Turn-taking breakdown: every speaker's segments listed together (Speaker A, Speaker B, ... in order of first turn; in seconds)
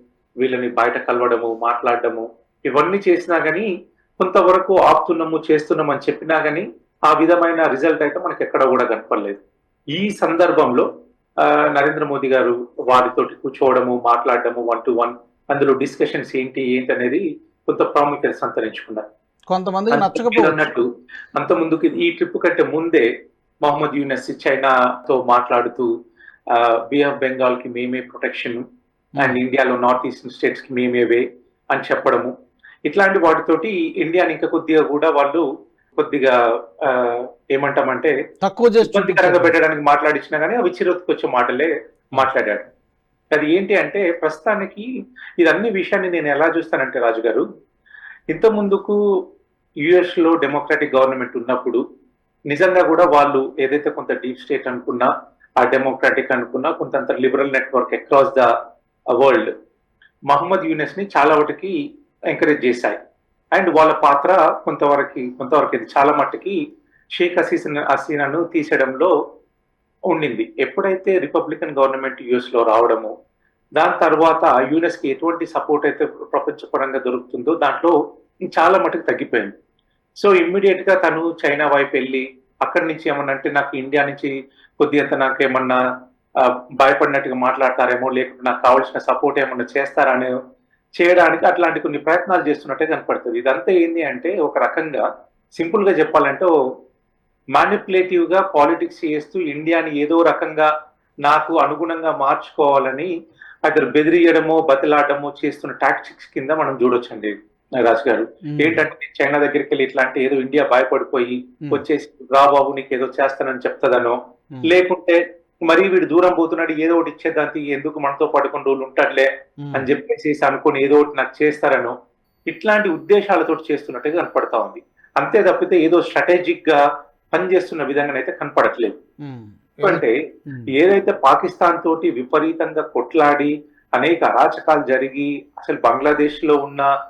Speaker A: 0.4-3.7, 4.2-9.4, 9.9-10.8, 11.4-19.0, 19.9-20.8, 21.3-23.1, 23.6-25.9, 26.5-28.6, 29.2-32.3, 32.9-35.4, 36.0-38.1, 38.8-42.7, 43.3-44.8, 45.4-47.4, 48.3-49.0, 49.8-51.8, 52.5-55.1, 55.6-58.5, 59.2-59.5, 60.3-61.7, 62.3-63.0, 63.5-66.6, 67.2-69.1, 70.1-73.1, 73.8-77.9, 78.5-79.5, 80.2-85.8, 86.4-90.3, 91.0-95.0, 95.5-96.5, 97.5-100.7, 101.2-103.1, 103.7-121.9, 122.5-126.8, 127.3-128.9, 129.8-130.2, 130.7-136.9
Speaker B: 19.5-20.7, 38.4-39.5, 108.5-108.8, 119.6-119.9, 129.2-130.7